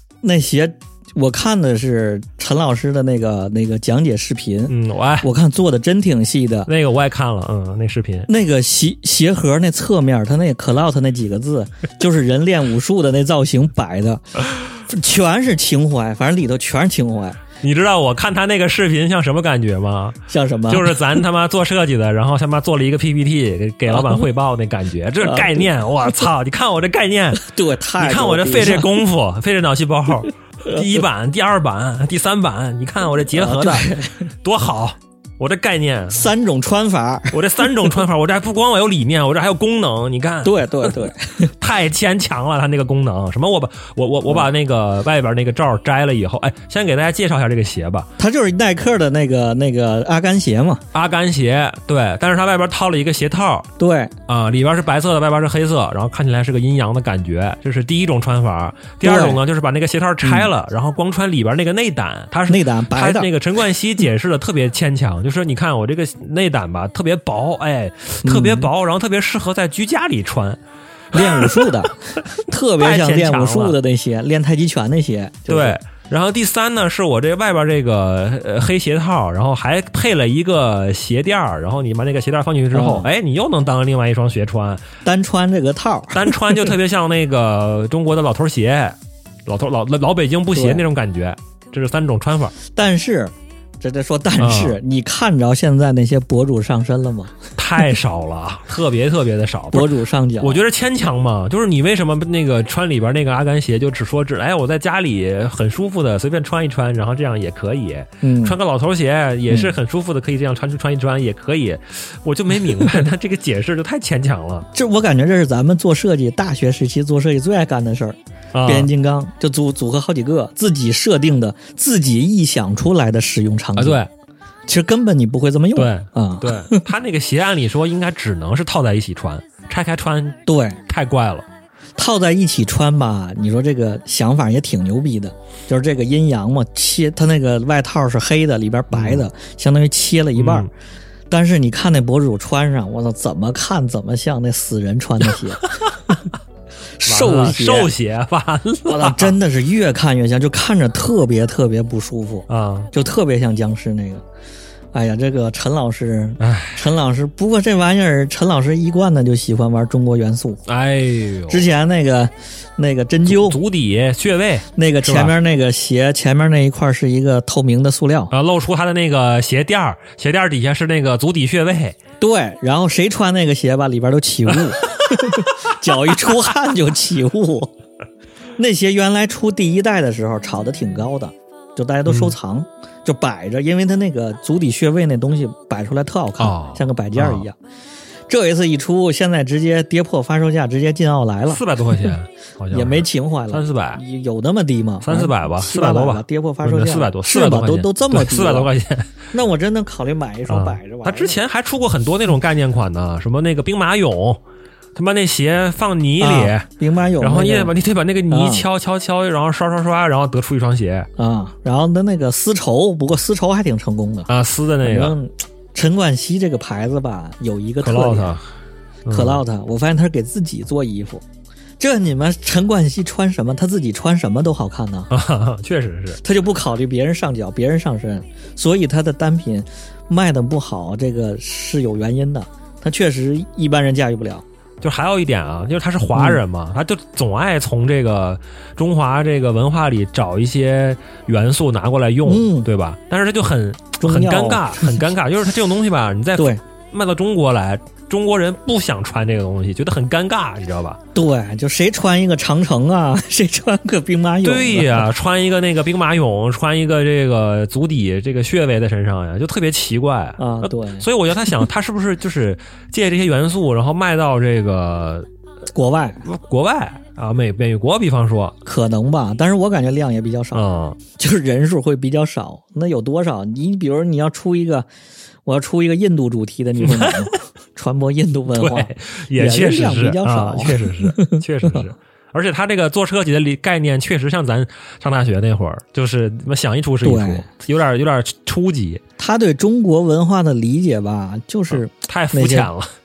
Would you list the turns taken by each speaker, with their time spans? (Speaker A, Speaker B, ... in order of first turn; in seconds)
Speaker A: 0.2-6.7, 8.3-17.4, 20.3-21.2, 23.9-24.2, 25.2-25.7, 27.4-29.0, 33.3-34.2, 36.1-37.9, 40.4-41.5, 48.2-50.8, 53.8-54.1, 59.0-59.4, 60.2-60.5, 62.5-63.3, 68.2-68.7, 71.1-75.8, 82.7-83.1, 85.0-86.7, 90.5-90.8, 92.7-97.4, 99.7-100.6, 108.2-108.6, 109.5-109.7, 112.6-113.0, 114.7-124.0, 124.7-126.9, 130.4-130.8, 131.9-140.7, 141.3-145.7, 147.0-147.9, 148.8-154.2, 154.9-160.6, 161.5-163.6, 164.7-168.3, 172.2-177.7, 178.6-187.6, 188.3-192.1, 192.7-198.7, 199.3-201.4, 206.2-207.7, 208.3-208.7, 211.2-214.3, 214.8-218.3, 219.1-221.2, 221.8-225.1, 226.2-234.4, 236.1-236.4, 242.2-242.7, 244.0-245.0, 251.1-255.1, 260.4-261.5, 265.7-266.2, 268.6-274.9, 275.4-281.9, 287.0-287.5, 289.2-292.7
Speaker B: 4.7-5.3, 6.7-8.3, 17.6-27.4, 28.0-36.2, 37.3-48.1, 50.9-53.7, 54.3-70.6, 71.1-72.3, 72.8-73.8, 75.5-84.8, 86.1-92.5, 94.4-94.8, 97.5-114.7, 118.5-118.9, 123.8-124.1, 125.7-131.5, 138.9-139.2, 140.3-140.7, 145.6-146.2, 147.1-149.3, 152.5-152.9, 156.4-156.8, 160.7-161.7, 163.2-165.3, 168.3-172.0, 174.7-176.3, 182.1-182.3, 186.4-187.4, 191.5-194.0, 195.0-199.2, 200.5-204.4, 204.9-211.1, 214.3-215.2, 217.8-218.5, 219.0-219.4, 225.1-226.2, 234.8-251.0, 254.4-265.3, 266.2-268.6, 270.5-271.0, 276.8-277.3, 278.5-289.0, 291.7-292.9